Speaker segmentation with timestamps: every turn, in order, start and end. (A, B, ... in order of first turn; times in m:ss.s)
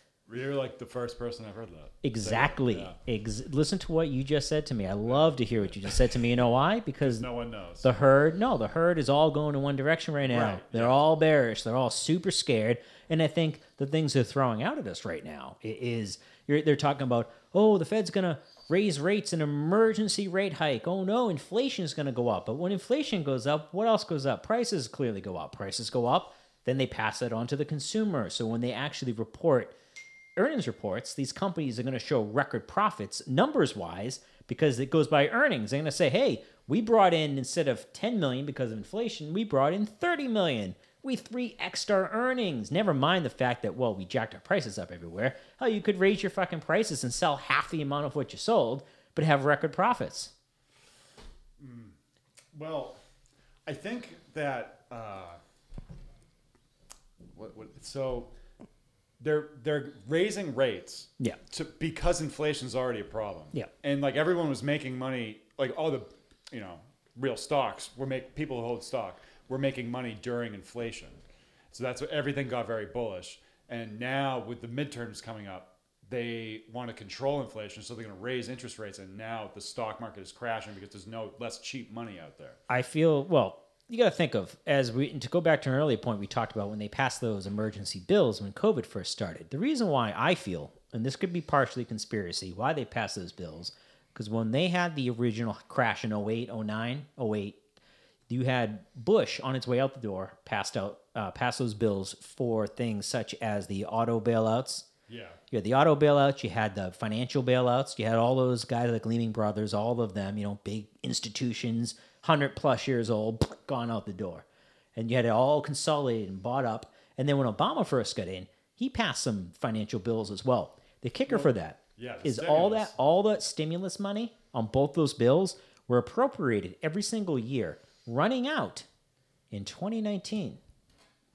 0:00.3-0:03.0 A
0:02.0-0:07.3 B
0:05.1-0:05.9 A
0:07.0-0:07.9 A
0:07.8-0:29.7 B
0:10.2-0:11.0 A
0:30.4-0:50.3 B
0:51.6-0:51.9 A
0:52.5-0:53.0 A
0:53.7-0:55.4 A
0:57.4-0:58.3 A
0:59.2-1:11.2 A
1:11.7-1:22.6 A
1:22.7-1:37.6 B
1:38.3-1:44.9 B
1:45.1-1:45.4 A
1:45.5-2:08.9 B
2:01.3-2:02.9 A
2:09.5-2:10.6 B